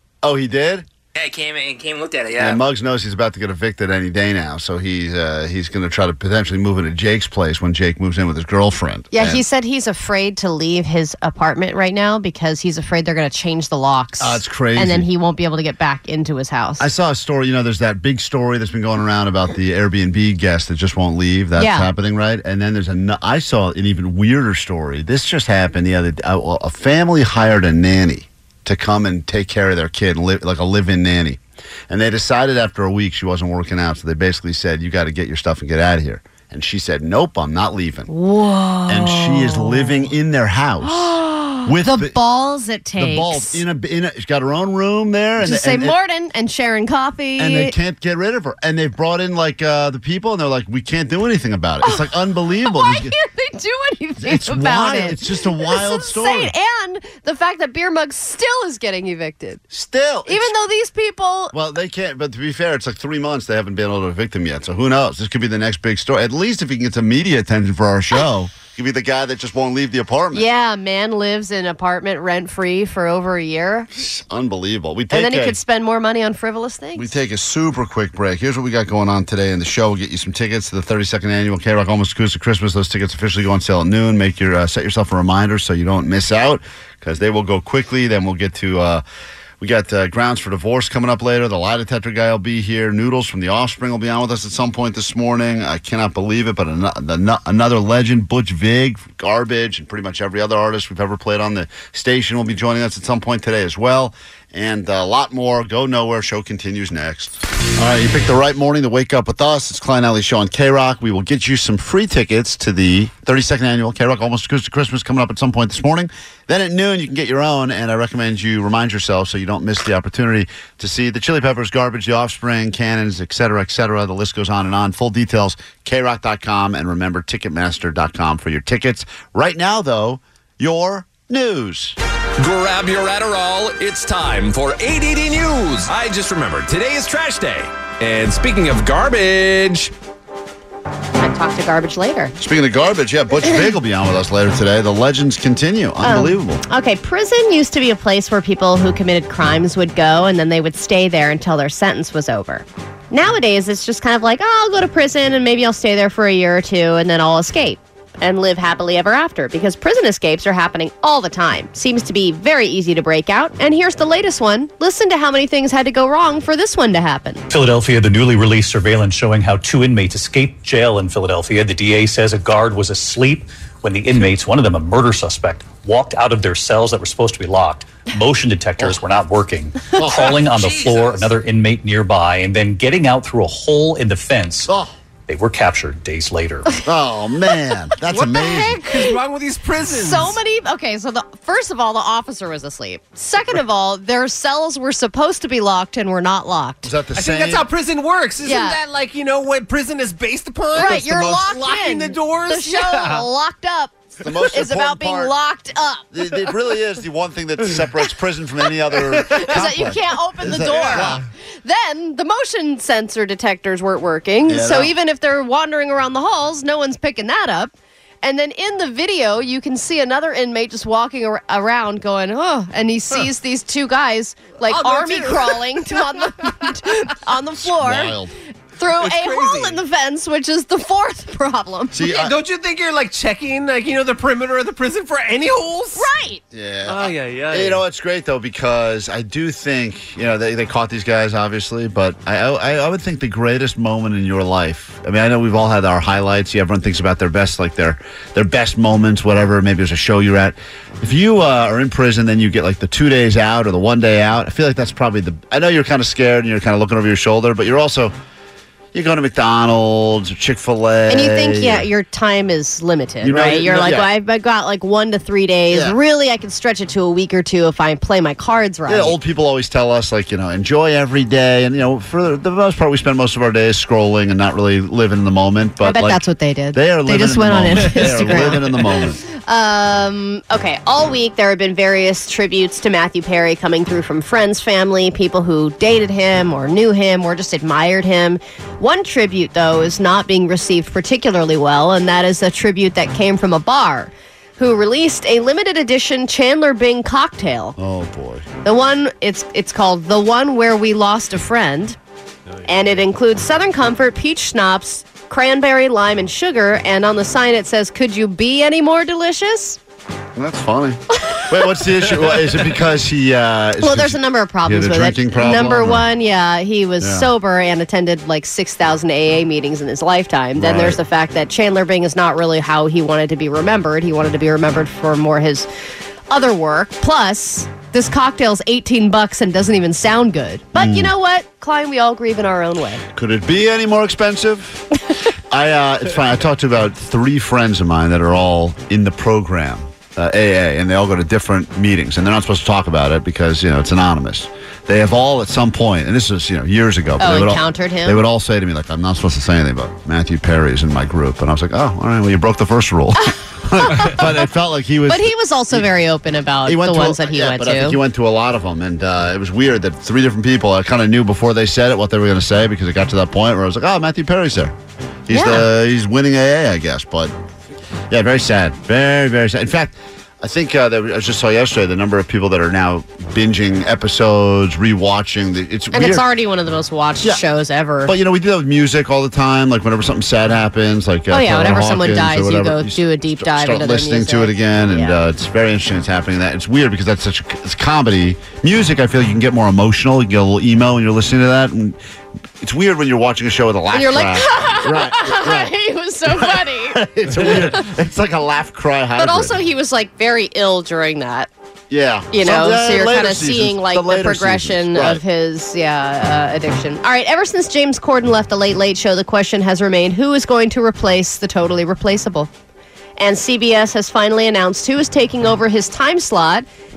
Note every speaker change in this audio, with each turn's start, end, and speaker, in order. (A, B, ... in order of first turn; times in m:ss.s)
0:00.2-0:00.8 A
0:01.1-0:02.6 B
0:02.4-0:09.4 A
0:09.1-0:16.9 C
0:14.2-0:15.1 A
0:16.8-0:38.1 A
0:21.6-0:21.9 C
0:38.1-0:40.1 C
0:38.9-0:42.2 A
0:40.8-0:43.6 C
0:43.0-0:46.0 A
0:45.4-0:47.8 C
0:47.4-0:53.1 A
0:51.8-0:52.1 C
0:52.6-0:59.6 C
0:54.2-0:56.5 A
0:59.7-1:00.5 A
1:00.3-1:01.5 C
1:01.5-1:10.5 A
1:10.3-1:13.9 C
1:14.0-1:15.6 A
1:15.1-1:17.1 C
1:17.0-1:29.0 A
1:29.6-2:12.0 A
2:12.4-2:19.9 D
2:21.2-2:22.3 C
2:22.4-2:26.6 A
2:23.4-2:23.7 C
2:26.0-2:47.4 C
2:47.5-3:04.7 E
3:00.0-3:00.3 A
3:00.1-3:01.3 B
3:04.7-3:04.9 A
3:05.3-3:06.7 E
3:06.8-3:08.8 A
3:08.4-3:10.1 F
3:08.9-3:09.2 C
3:09.9-3:16.9 C
3:16.8-3:17.7 A
3:17.2-3:23.2 F
3:18.4-3:18.8 C
3:20.7-3:26.1 C
3:24.2-3:25.3 A
3:26.1-3:31.2 A
3:29.1-3:48.2 C
3:34.5-3:34.9 A
3:44.7-3:45.5 F
3:47.6-3:48.3 A
3:48.8-3:52.1 C
3:49.0-3:49.8 F
3:51.9-3:52.4 A
3:52.1-3:56.0 F
3:56.0-3:56.4 C
3:56.5-4:18.1 A
3:56.9-3:57.8 F
4:18.9-4:21.9 A
4:21.1-4:29.2 C
4:23.2-4:24.1 A
4:25.7-4:26.0 A
4:28.9-4:39.2 A
4:35.8-4:57.8 C
4:57.8-4:58.5 A
4:58.6-5:02.0 C
5:02.7-5:09.8 C
5:10.4-5:16.1 A
5:13.8-5:25.7 C
5:17.0-5:17.3 A
5:20.6-5:21.0 A
5:26.3-5:33.0 C
5:30.8-5:31.1 A
5:33.1-5:34.9 A
5:35.5-5:55.9 A
5:47.2-5:48.2 C
5:53.8-5:54.3 C
5:55.1-5:58.0 C
5:56.6-6:04.8 A
6:05.3-6:07.3 A
6:05.3-6:05.7 C
6:08.1-6:16.2 A
6:15.9-6:18.2 C
6:18.1-6:32.0 A
6:21.3-6:25.2 C
6:32.6-6:35.7 A
6:33.9-6:37.9 C
6:36.3-6:39.6 A
6:39.2-6:41.5 C
6:41.9-6:45.2 A
6:42.3-6:52.5 C
6:53.2-6:56.7 C